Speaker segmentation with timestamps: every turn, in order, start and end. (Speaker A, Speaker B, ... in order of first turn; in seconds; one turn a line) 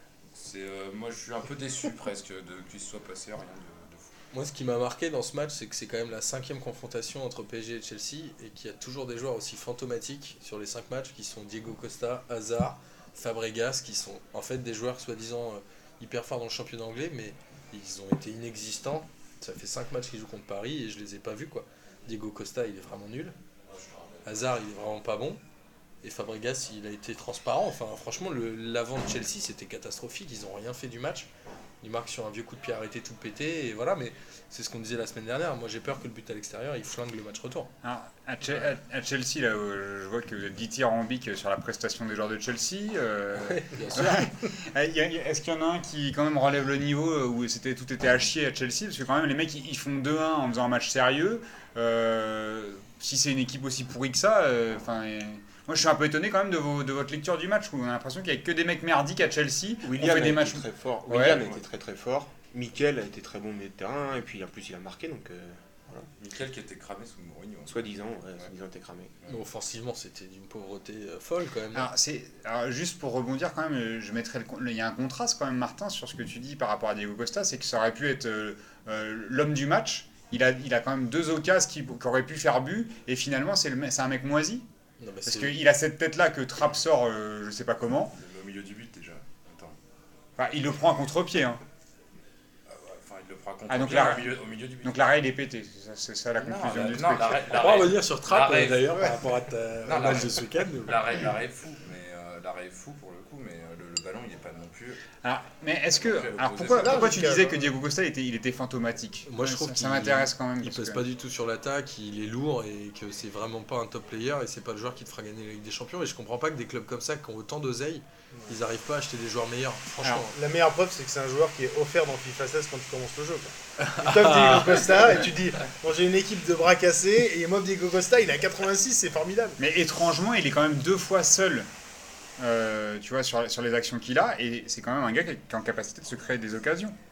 Speaker A: 0.3-4.1
Speaker B: 4.3-23.3
Speaker B: 24.2-25.4
Speaker B: 26.0-31.3
Speaker B: 31.8-37.7
Speaker C: 37.8-61.5
Speaker B: 43.4-44.2
Speaker D: 59.8-66.0
Speaker A: 66.2-67.8
Speaker D: 67.7-69.1
Speaker B: 69.3-71.9
Speaker C: 71.7-84.6
Speaker B: 85.0-85.5
Speaker C: 85.2-88.1
Speaker A: 88.2-89.7
Speaker C: 90.4-91.6
Speaker A: 92.7-95.0
Speaker C: 93.7-97.5
Speaker A: 96.4-99.1
Speaker B: 97.5-101.0
Speaker A: 99.8-105.0
Speaker C: 105.2-111.0
Speaker A: 105.9-107.2
Speaker E: 106.7-107.7
Speaker B: 109.2-120.3
Speaker E: 120.3-129.6
Speaker B: 123.8-125.1
Speaker C: 129.6-131.7
Speaker C: 132.4-136.9